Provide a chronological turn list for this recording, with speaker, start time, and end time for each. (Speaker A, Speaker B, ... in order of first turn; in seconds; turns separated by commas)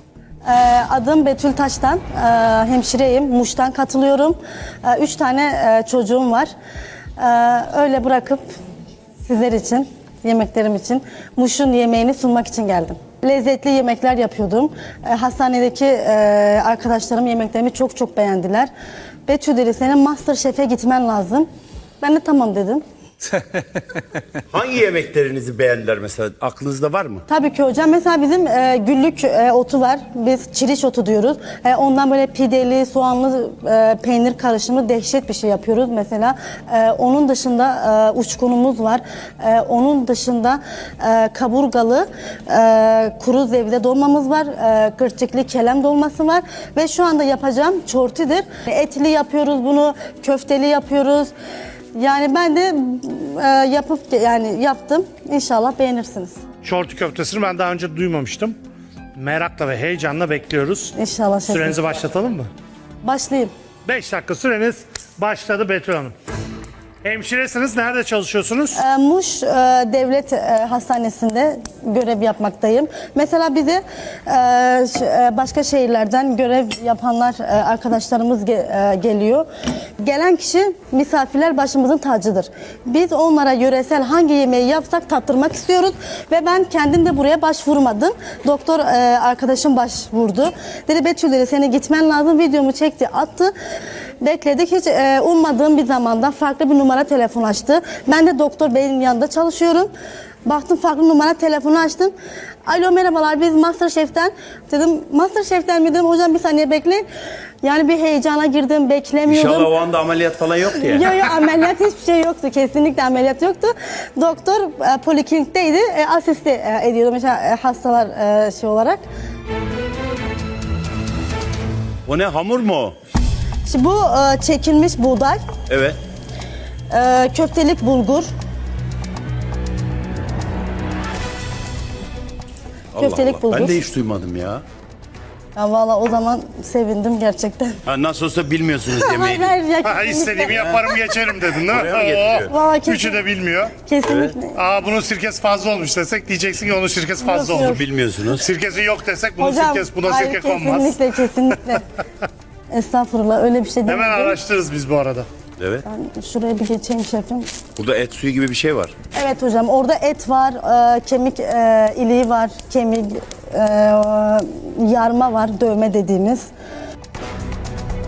Speaker A: 0.5-6.5, Speaker A: 7.2-8.4, Speaker A: 9.2-18.7, Speaker A: 19.3-21.5, Speaker A: 22.0-22.8, Speaker B: 24.5-27.2, Speaker A: 27.3-51.3, Speaker A: 51.9-56.4, Speaker C: 56.6-58.6, Speaker C: 59.1-60.9, Speaker A: 61.0-62.0, Speaker C: 61.5-62.5, Speaker A: 63.0-63.5, Speaker C: 63.8-66.1, Speaker C: 67.0-68.8, Speaker A: 68.7-93.5, Speaker A: 94.2-99.9, Speaker A: 100.4-102.1, Speaker A: 102.7-107.0, Speaker A: 107.6-109.7, Speaker B: 109.3-111.2, Speaker A: 110.7-119.0, Speaker B: 122.0-123.0, Speaker A: 123.7-125.4, Speaker B: 125.7-126.0, Speaker A: 126.9-128.3, Speaker B: 132.9-134.6, Speaker A: 133.0-133.8, Speaker A: 135.6-137.8, Speaker B: 137.8-139.5, Speaker A: 138.9-140.7, Speaker C: 139.8-143.7, Speaker B: 140.5-140.8, Speaker B: 141.6-142.5, Speaker A: 142.5-143.2, Speaker A: 143.8-144.6, Speaker B: 144.0-144.3, Speaker C: 144.5-151.0, Speaker A: 147.2-147.8, Speaker B: 147.6-148.4, Speaker A: 149.4-151.8, Speaker A: 152.7-154.4, Speaker C: 153.9-155.3, Speaker B: 155.6-155.8, Speaker A: 155.8-157.5, Speaker B: 157.8-158.9, Speaker A: 159.1-166.5